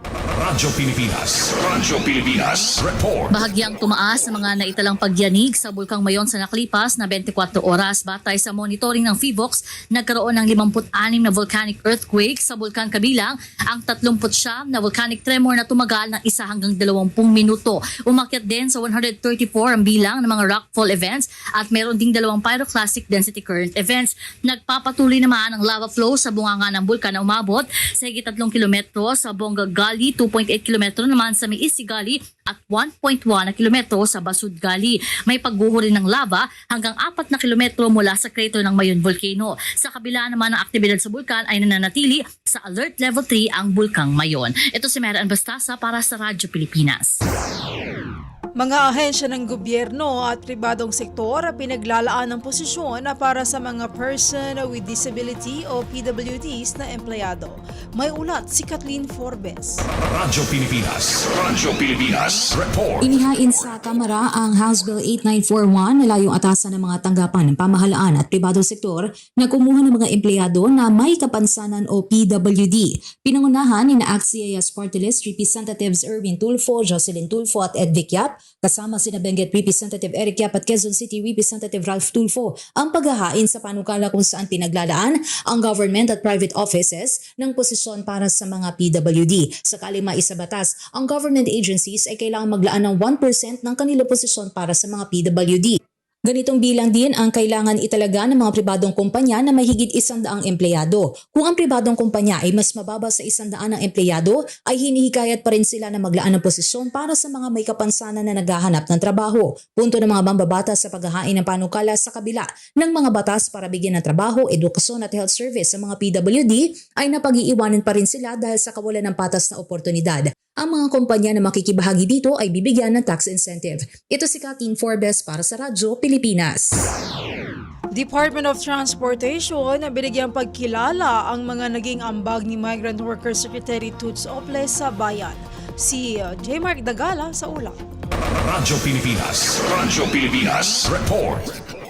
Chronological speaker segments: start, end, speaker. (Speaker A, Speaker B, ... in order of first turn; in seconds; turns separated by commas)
Speaker A: 0.3-3.3, Speaker B: 3.3-47.2, Speaker C: 48.5-59.9, Speaker A: 60.0-63.1, Speaker D: 63.0-126.7, Speaker C: 127.9-137.8, Speaker A: 138.4-141.4